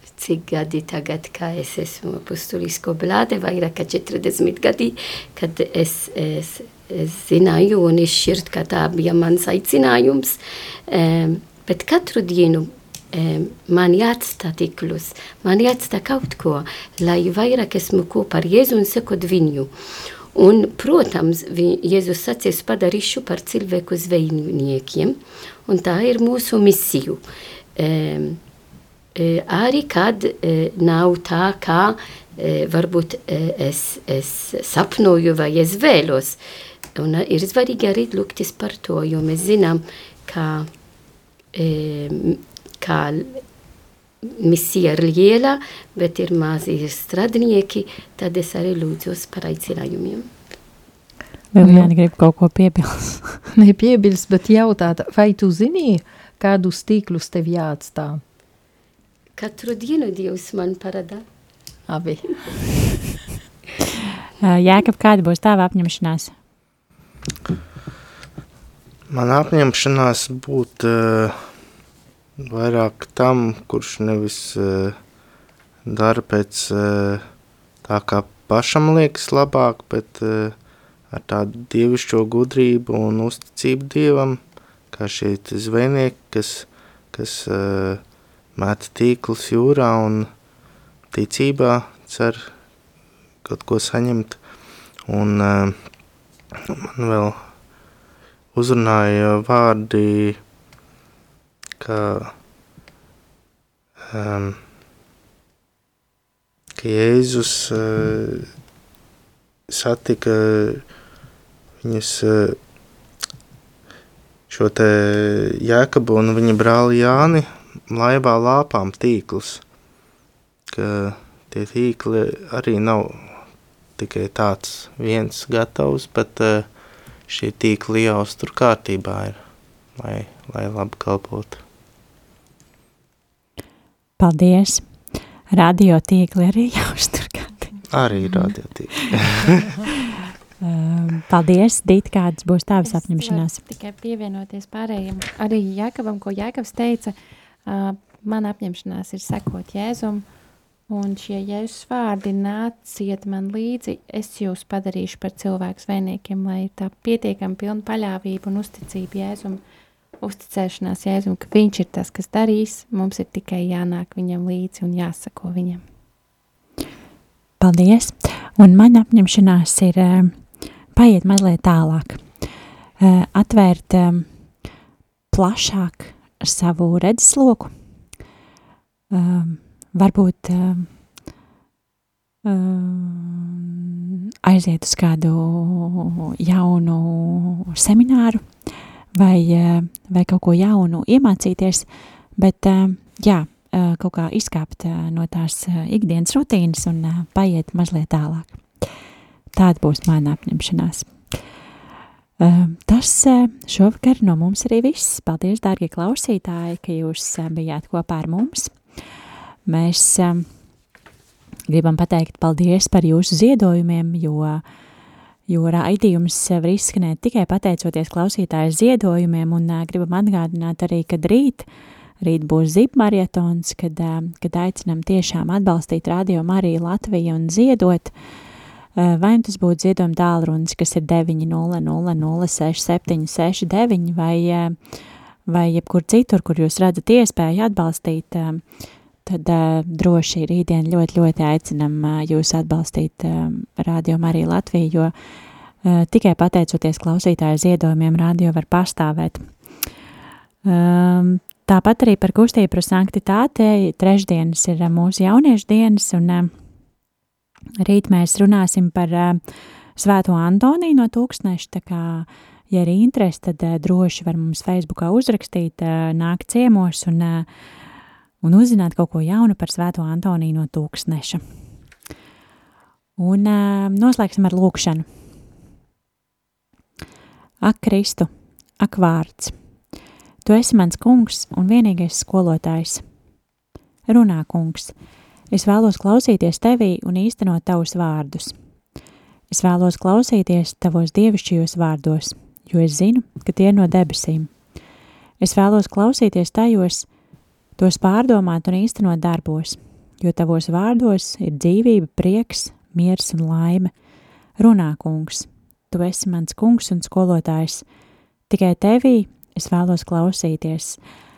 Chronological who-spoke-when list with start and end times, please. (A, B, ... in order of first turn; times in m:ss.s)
0:00.2-0:19.7 A
0:20.4-0:27.2 A
0:27.8-0:28.4 A
0:29.2-0:36.4 A
0:37.0-0:40.7 A
0:41.5-0:43.4 A
0:44.2-0:50.3 A
0:51.5-0:53.4 B
0:51.6-0:51.9 C
0:53.5-0:58.2 C
0:59.4-1:01.2 A
1:01.9-1:03.0 C
1:04.4-1:06.3 B
1:09.1-1:11.5 D
1:12.4-1:15.0 D
1:15.8-1:17.2 D
1:17.8-1:20.6 D
1:21.1-1:28.0 D
1:28.6-1:30.3 D
1:31.1-1:32.5 D
1:33.4-1:34.4 D
1:35.1-1:35.8 D
1:36.7-1:37.5 D
1:38.5-1:40.4 D
1:41.8-1:42.3 D
1:44.1-1:44.6 D
1:46.8-1:48.5 D
1:49.7-1:50.8 D
1:51.8-1:52.6 D
1:54.5-1:59.6 D
2:00.7-2:03.4 D
2:04.0-2:06.7 D
2:07.3-2:09.4 D
2:10.0-2:11.6 D
2:14.2-2:15.0 B
2:15.5-2:17.8 B
2:17.9-2:19.8 D
2:20.6-2:23.6 B
2:22.8-2:30.2 E
2:30.9-2:39.6 E
2:40.2-2:45.8 E
2:47.6-2:50.4 B
2:50.9-2:52.3 B
2:53.0-2:54.4 B
2:55.3-2:57.7 B
2:59.1-3:00.9 B
3:02.4-3:18.8 B
3:19.6-3:21.4 B
3:22.4-3:28.9 B
3:29.7-3:30.5 B
3:31.7-3:34.6 B
3:35.5-3:41.7 B
3:42.2-3:48.1 B
3:49.0-3:55.0 B
3:55.5-3:58.6 B
3:59.2-4:05.1 B
4:05.8-4:09.5 B
4:10.6-4:16.5 B
4:17.8-4:19.4 B
4:20.0-4:27.5 B
4:28.4-4:31.4 B
4:33.2-4:35.1 B
4:37.6-4:39.6 B
4:40.4-4:43.0 B
4:44.1-4:45.0 B
4:45.5-4:48.6 B
4:49.5-4:54.5 B
4:55.4-4:57.1 B
4:57.8-5:03.9 B
5:04.6-5:07.8 B
5:08.5-5:11.0 B